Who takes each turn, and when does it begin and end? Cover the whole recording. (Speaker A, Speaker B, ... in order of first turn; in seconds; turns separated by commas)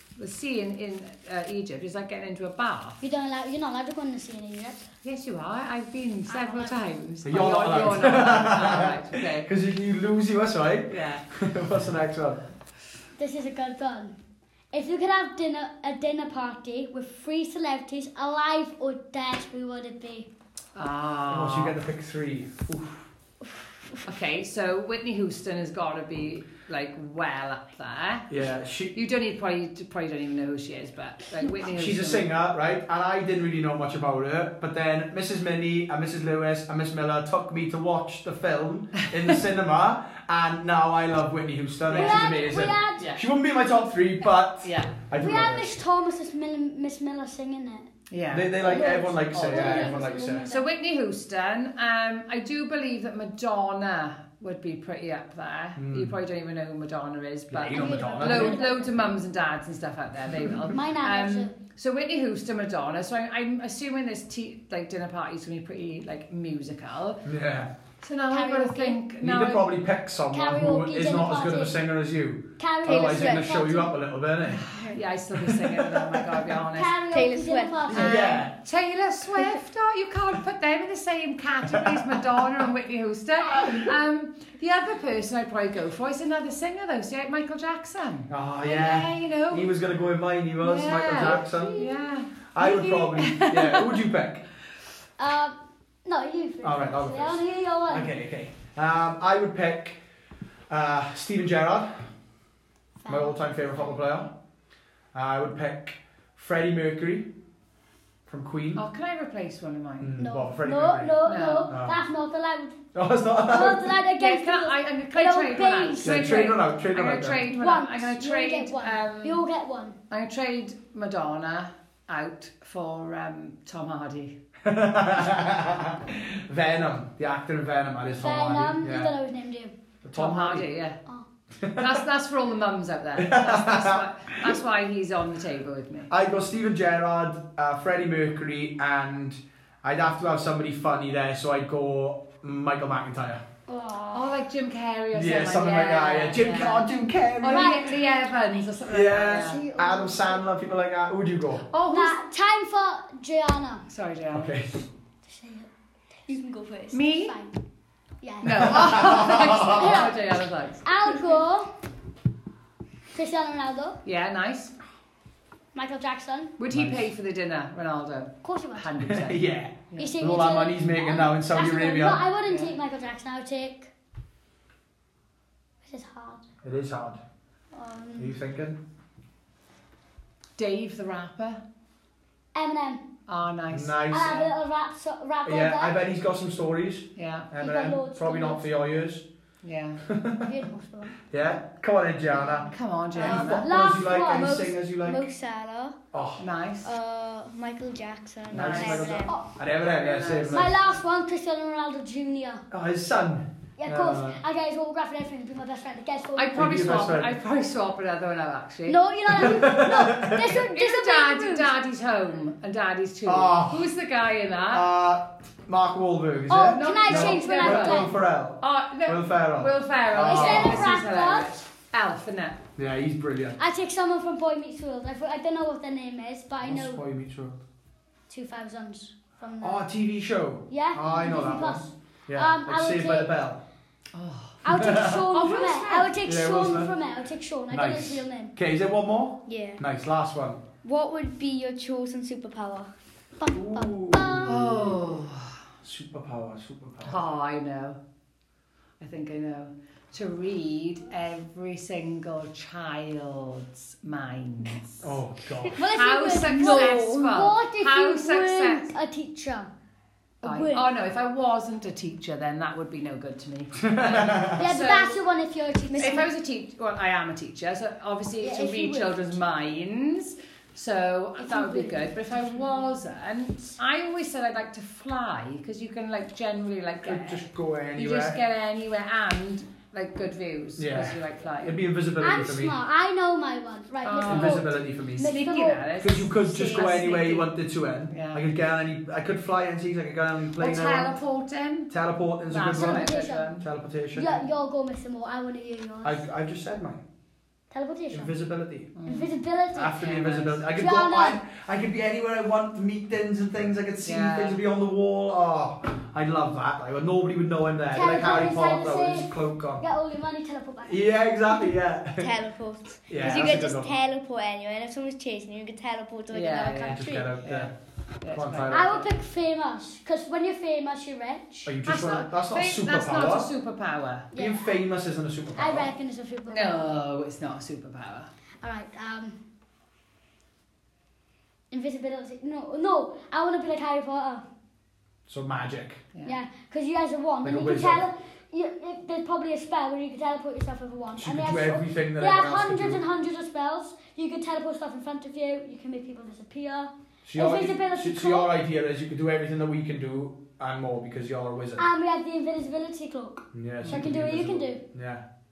Speaker A: 0.2-3.0, Speaker B: 3.0-4.8, Speaker A: 5.0-9.5, Speaker B: 6.3-6.8, Speaker C: 7.2-12.4, Speaker A: 10.9-11.2, Speaker B: 13.2-14.2, Speaker B: 14.7-20.3, Speaker A: 20.8-21.8, Speaker C: 21.3-23.0, Speaker A: 24.1-32.3, Speaker C: 28.3-28.9, Speaker C: 31.7-45.7, Speaker A: 41.9-42.4, Speaker B: 41.9-43.1, Speaker A: 44.6-45.0, Speaker B: 45.2-47.9, Speaker A: 48.1-48.6, Speaker C: 48.3-50.5, Speaker B: 48.6-50.7, Speaker A: 49.3-67.3, Speaker C: 55.8-56.2, Speaker C: 57.5-58.6, Speaker B: 57.7-59.2, Speaker B: 60.6-61.5, Speaker C: 67.2-67.7, Speaker A: 68.0-69.8, Speaker B: 68.3-69.0, Speaker C: 69.2-74.8, Speaker B: 70.3-71.8, Speaker B: 72.6-73.9, Speaker D: 72.8-73.5, Speaker A: 74.5-77.0, Speaker C: 75.4-76.2, Speaker B: 76.7-78.4, Speaker D: 77.1-78.1, Speaker C: 77.9-78.5, Speaker A: 77.9-89.7, Speaker C: 81.7-82.2, Speaker C: 88.3-91.8, Speaker A: 90.6-94.0, Speaker B: 91.1-92.0, Speaker C: 92.5-94.4, Speaker B: 95.2-98.1, Speaker C: 96.6-100.0, Speaker C: 100.7-102.1, Speaker B: 103.0-103.9, Speaker C: 103.1-104.3, Speaker C: 105.1-107.3, Speaker C: 108.3-108.8, Speaker A: 108.8-110.2, Speaker C: 110.0-111.2, Speaker B: 110.2-112.8, Speaker A: 111.2-111.7, Speaker C: 111.7-112.0, Speaker C: 113.0-113.9, Speaker B: 113.5-116.4, Speaker A: 114.0-119.4, Speaker C: 116.0-117.5, Speaker B: 117.5-120.0, Speaker A: 120.1-124.4, Speaker C: 124.6-129.1, Speaker B: 128.1-129.8, Speaker C: 130.0-130.7, Speaker A: 130.1-131.0, Speaker C: 131.6-132.0, Speaker A: 131.8-136.1, Speaker C: 133.2-134.6, Speaker C: 136.1-143.4, Speaker B: 143.7-144.3, Speaker A: 144.1-149.6, Speaker C: 145.1-147.9, Speaker B: 147.4-148.7, Speaker C: 148.9-151.7, Speaker D: 149.4-150.5, Speaker A: 151.7-152.2, Speaker B: 151.9-153.9, Speaker A: 153.9-154.6, Speaker C: 154.3-154.9, Speaker B: 155.3-155.7, Speaker D: 156.3-157.6, Speaker A: 156.9-157.4, Speaker B: 158.2-160.2, Speaker A: 158.4-161.1, Speaker C: 158.6-159.8, Speaker B: 160.8-161.7, Speaker B: 163.1-164.0, Speaker A: 164.0-164.7, Speaker B: 165.7-166.6, Speaker A: 166.6-170.1, Speaker C: 166.7-167.1, Speaker B: 168.4-168.9, Speaker C: 169.0-172.2, Speaker B: 170.0-173.9, Speaker A: 172.5-172.8, Speaker B: 175.8-176.4, Speaker C: 176.6-177.2, Speaker B: 177.7-178.4, Speaker C: 178.2-178.8, Speaker A: 180.6-181.6, Speaker B: 182.6-183.1, Speaker A: 183.3-184.1, Speaker C: 183.7-184.5, Speaker B: 184.1-186.0, Speaker C: 185.4-189.2, Speaker A: 187.2-187.5, Speaker B: 187.6-188.7, Speaker A: 189.6-190.0, Speaker C: 190.1-190.4, Speaker B: 190.4-191.2, Speaker C: 191.3-195.3, Speaker A: 192.6-193.7, Speaker D: 193.2-196.0, Speaker B: 193.2-194.6, Speaker C: 196.1-196.4, Speaker A: 196.4-196.9, Speaker D: 196.8-199.4, Speaker C: 198.5-200.8, Speaker A: 198.5-201.0, Speaker B: 200.5-202.6, Speaker C: 202.7-204.4, Speaker B: 203.8-207.0, Speaker A: 206.4-209.0, Speaker C: 206.6-207.3, Speaker B: 208.9-211.7, Speaker C: 209.3-210.4, Speaker A: 210.4-214.8, Speaker C: 213.2-213.9, Speaker C: 214.7-220.8, Speaker B: 216.5-218.1, Speaker A: 216.7-222.6, Speaker B: 220.2-221.5, Speaker C: 222.8-223.6, Speaker B: 223.6-227.0, Speaker C: 226.6-227.6, Speaker B: 228.3-229.9, Speaker C: 229.6-233.6, Speaker B: 230.7-233.3, Speaker A: 234.1-234.6, Speaker B: 234.6-238.5, Speaker C: 234.7-235.3, Speaker A: 235.3-236.1, Speaker C: 236.2-236.9, Speaker C: 237.7-240.6, Speaker D: 239.5-239.8, Speaker D: 240.8-242.9, Speaker B: 243.4-244.8, Speaker C: 243.5-245.0, Speaker A: 244.4-245.6, Speaker C: 245.8-247.2, Speaker A: 247.0-248.0, Speaker A: 249.0-255.2, Speaker C: 255.0-255.8, Speaker B: 255.7-259.7, Speaker A: 255.9-258.9, Speaker D: 256.5-257.4, Speaker B: 260.4-260.9, Speaker A: 260.4-265.2, Speaker C: 263.9-264.6, Speaker B: 264.6-266.3, Speaker D: 265.9-266.3, Speaker A: 266.0-281.8, Speaker B: 268.4-269.4, Speaker B: 271.4-272.3, Speaker C: 277.0-278.4, Speaker C: 280.8-282.8, Speaker B: 282.2-285.8, Speaker A: 284.0-284.6, Speaker C: 284.2-285.3, Speaker A: 285.2-287.5, Speaker C: 286.0-291.2, Speaker D: 286.5-286.9, Speaker A: 288.1-288.5, Speaker A: 290.6-291.9, Speaker C: 291.9-294.4, Speaker A: 292.5-293.7, Speaker B: 292.7-293.5, Speaker B: 294.1-296.2, Speaker C: 296.0-297.0, Speaker B: 297.7-298.4, Speaker C: 298.1-298.9, Speaker A: 299.0-299.4, Speaker B: 299.1-300.0, Speaker C: 299.8-309.8, Speaker A: 299.9-300.6, Speaker B: 300.7-301.4, Speaker A: 304.0-304.6, Speaker B: 307.9-311.1, Speaker C: 310.9-312.3, Speaker D: 312.2-317.3, Speaker C: 313.1-313.9, Speaker A: 316.3-319.1, Speaker C: 316.8-317.7, Speaker C: 318.3-319.0, Speaker B: 318.7-321.7, Speaker C: 321.7-323.5, Speaker A: 321.9-324.3, Speaker B: 324.3-324.8, Speaker C: 324.4-325.9, Speaker B: 325.5-326.9, Speaker A: 326.5-328.3, Speaker B: 328.6-329.4, Speaker B: 331.7-334.4, Speaker C: 335.3-336.0, Speaker B: 336.2-348.5, Speaker C: 337.4-338.1, Speaker C: 341.2-343.0, Speaker C: 347.2-351.9, Speaker B: 351.8-354.8, Speaker C: 353.5-355.2